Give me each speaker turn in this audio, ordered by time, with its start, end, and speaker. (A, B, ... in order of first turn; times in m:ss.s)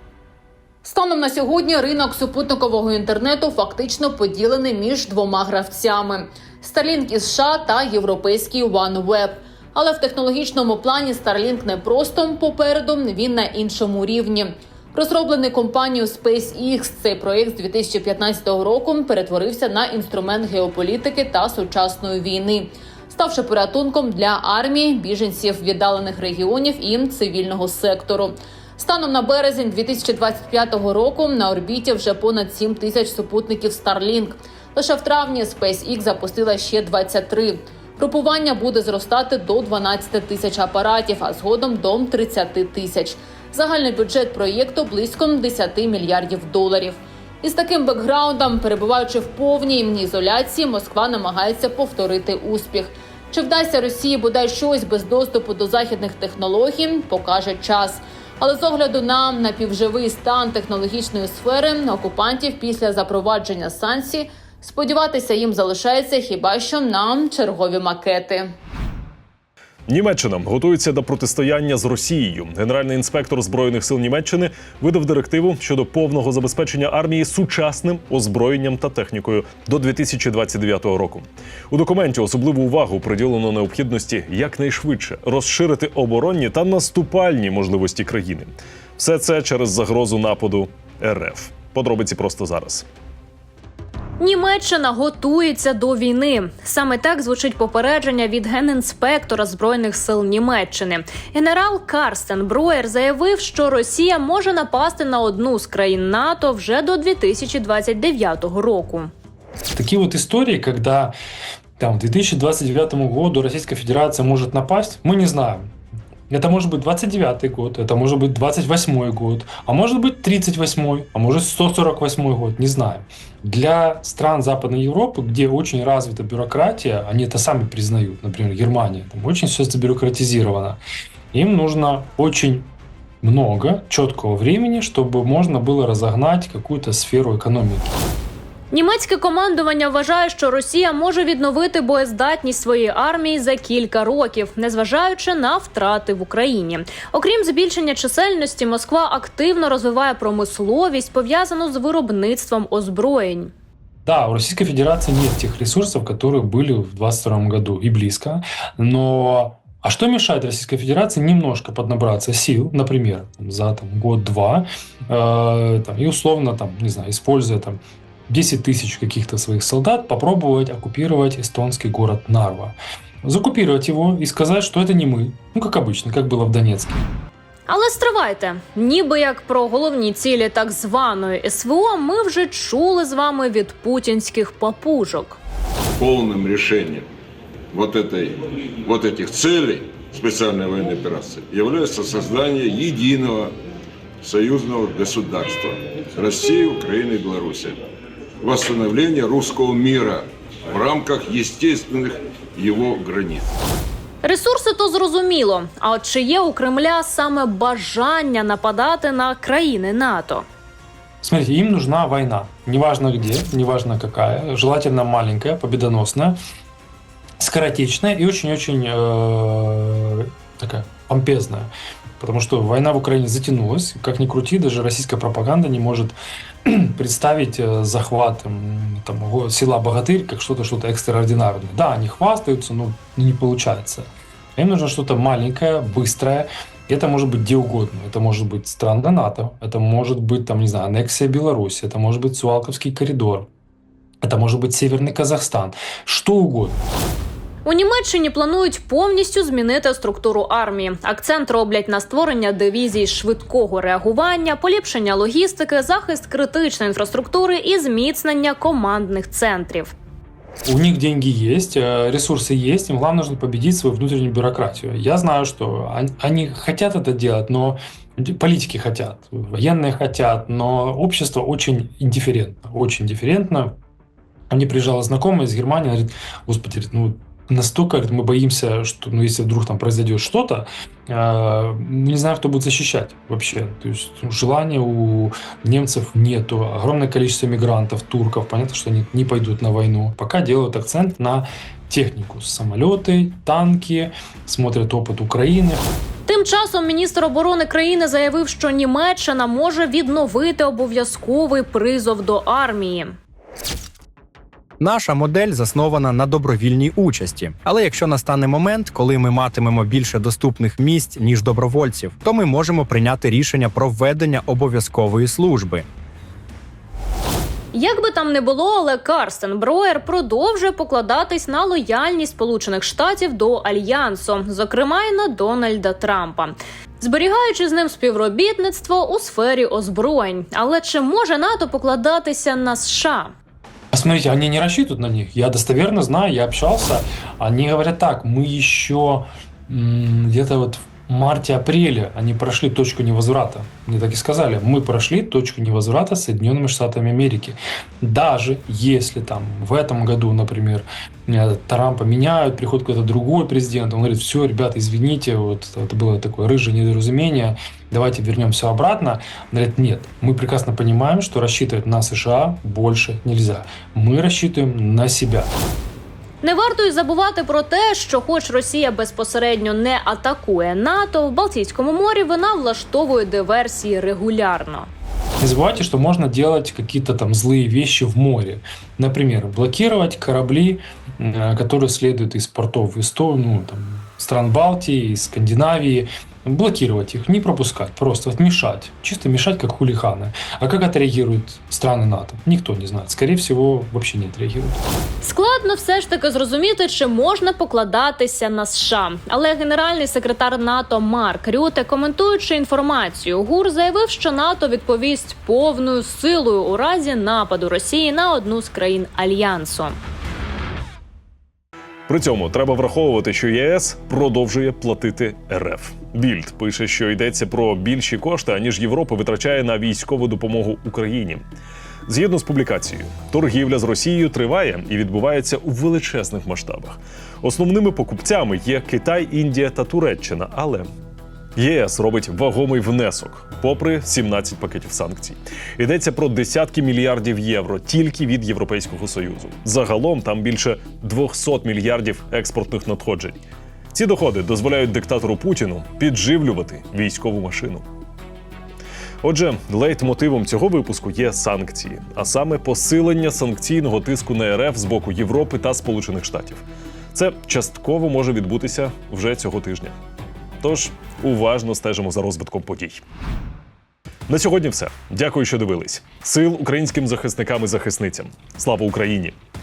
0:00.8-1:08.5 A
1:09.9-1:32.8 B
1:34.2-1:49.1 C
1:49.7-1:51.1 D
1:51.8-1:55.7 D
1:56.3-2:10.8 D
2:11.3-2:12.7 D
2:13.2-2:18.0 D
2:18.7-2:33.5 C
2:34.0-2:57.0 D
2:57.7-3:05.4 C
3:06.0-3:07.1 E
3:07.7-3:13.5 E
3:14.2-3:17.8 E
3:18.4-3:23.6 E
3:24.2-3:30.4 C
3:31.2-3:36.4 D
3:37.4-3:46.1 D
3:46.6-4:03.5 D
4:04.2-4:06.8 D
4:07.6-4:19.9 C
4:20.6-4:33.8 D
4:34.5-4:55.8 D
4:56.3-5:03.2 C
5:04.8-5:15.8 F
5:17.7-5:33.3 C
5:33.9-6:05.5 D
6:06.4-6:14.9 C
6:15.4-6:34.8 D
6:35.2-6:50.0 C
6:52.1-7:01.4 B
7:02.1-7:10.9 B
7:11.6-7:23.4 B
7:23.9-7:27.8 B
7:29.2-7:36.6 B
7:37.1-7:39.9 B
7:40.6-7:43.0 B
7:44.3-7:49.4 B